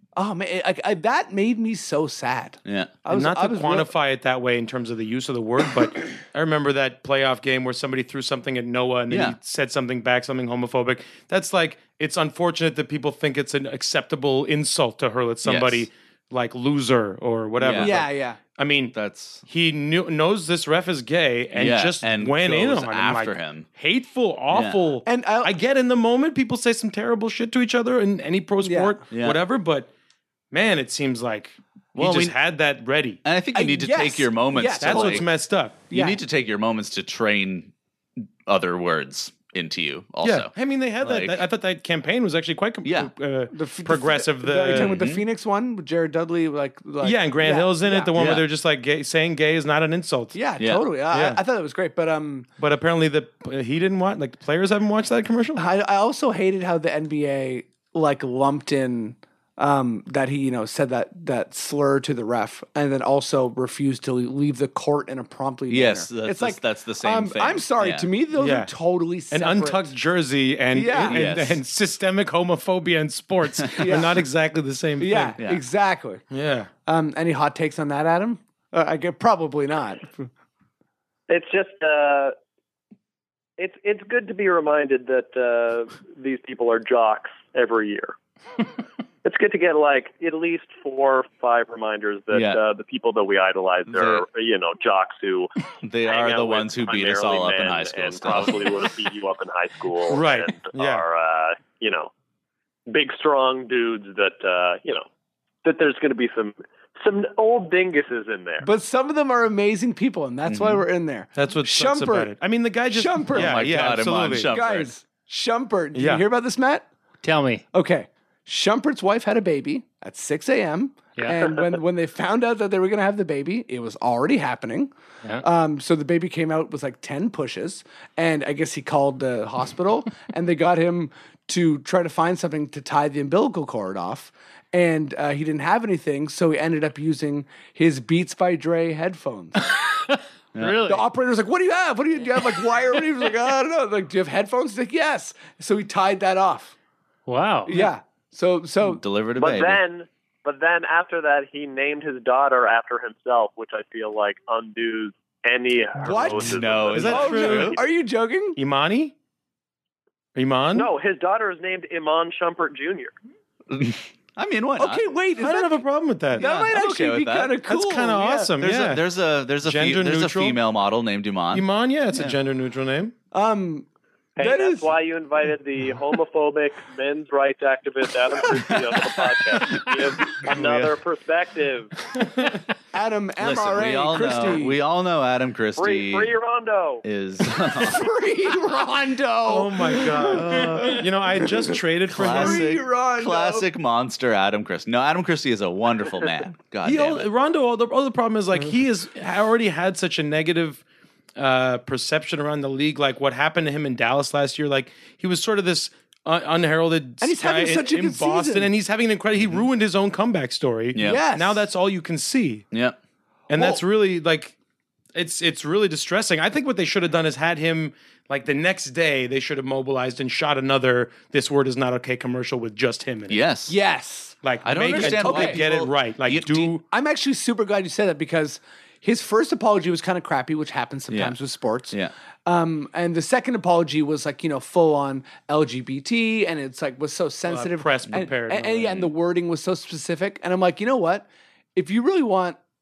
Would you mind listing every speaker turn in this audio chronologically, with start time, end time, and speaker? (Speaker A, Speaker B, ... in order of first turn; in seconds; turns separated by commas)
Speaker A: 0.2-3.9, Speaker B: 2.6-3.0, Speaker C: 3.1-29.9, Speaker B: 9.1-9.4, Speaker B: 15.4-15.9, Speaker B: 17.6-18.0, Speaker A: 17.8-18.4, Speaker B: 18.9-19.4, Speaker B: 21.5-23.7, Speaker B: 24.5-25.0, Speaker A: 25.1-25.6, Speaker A: 28.6-29.0, Speaker B: 29.1-29.4, Speaker C: 30.5-33.2, Speaker B: 31.9-32.4, Speaker B: 33.2-35.3, Speaker A: 33.5-35.3, Speaker C: 34.8-35.8, Speaker A: 35.9-36.2, Speaker B: 35.9-37.7, Speaker B: 38.5-41.4, Speaker C: 40.2-44.9, Speaker B: 42.8-43.1, Speaker A: 43.5-48.1, Speaker B: 44.7-45.2, Speaker C: 47.0-50.4, Speaker B: 48.2-48.5, Speaker A: 50.3-52.5, Speaker B: 50.6-50.9, Speaker C: 51.1-51.4, Speaker C: 52.6-55.6, Speaker A: 55.6-69.9, Speaker B: 65.7-68.1, Speaker C: 68.4-68.7, Speaker C: 69.3-75.4, Speaker A: 70.7-71.2, Speaker B: 71.0-71.6, Speaker A: 73.8-74.2, Speaker A: 75.0-76.2, Speaker C: 76.3-76.7, Speaker A: 76.9-80.3, Speaker D: 81.3-82.3, Speaker D: 83.6-88.2, Speaker D: 89.2-95.5, Speaker B: 92.3-92.6, Speaker B: 93.9-94.3, Speaker B: 95.8-98.9, Speaker D: 96.1-102.1, Speaker C: 100.1-101.0, Speaker D: 102.9-105.0, Speaker D: 105.6-108.7, Speaker A: 108.6-112.3, Speaker B: 110.5-110.8, Speaker C: 111.4-114.5, Speaker A: 112.9-116.9, Speaker B: 113.3-114.9, Speaker C: 116.0-116.2, Speaker E: 117.2-117.6, Speaker A: 117.7-139.7, Speaker E: 140.1-141.1, Speaker B: 140.6-140.8, Speaker A: 140.8-146.8, Speaker E: 147.3-147.9, Speaker A: 147.7-149.0, Speaker B: 148.8-149.8, Speaker D: 149.4-157.6, Speaker A: 156.0-158.6, Speaker B: 156.3-157.8, Speaker C: 156.9-157.8, Speaker C: 158.6-159.1, Speaker C: 160.4-160.9, Speaker D: 160.7-163.2, Speaker B: 163.7-165.1, Speaker A: 164.8-165.8, Speaker C: 165.4-166.4, Speaker A: 166.3-168.5, Speaker B: 166.4-167.6, Speaker C: 167.7-169.0, Speaker B: 168.6-172.4, Speaker C: 169.6-170.6, Speaker C: 171.5-173.1, Speaker A: 173.3-173.9, Speaker D: 174.4-181.9, Speaker A: 174.4-174.9, Speaker B: 178.7-179.8, Speaker B: 180.5-180.9, Speaker A: 182.9-184.8, Speaker B: 183.4-186.3, Speaker D: 185.8-187.0, Speaker B: 187.0-188.1, Speaker A: 187.8-191.6, Speaker C: 189.5-192.7, Speaker B: 190.3-191.0, Speaker B: 192.1-197.3, Speaker A: 192.2-193.7, Speaker C: 196.8-200.8, Speaker C: 201.4-212.7, Speaker A: 207.2-208.7, Speaker B: 209.4-209.7, Speaker B: 210.9-211.2, Speaker A: 211.0-211.7, Speaker B: 212.7-213.0, Speaker C: 213.5-214.6, Speaker A: 213.5-213.8, Speaker C: 215.2-223.4, Speaker B: 223.3-223.8, Speaker A: 223.7-224.4, Speaker C: 224.4-226.8, Speaker B: 224.6-226.8, Speaker A: 224.9-225.7, Speaker A: 226.9-231.9, Speaker B: 231.1-231.4, Speaker A: 232.5-242.6, Speaker C: 237.5-239.0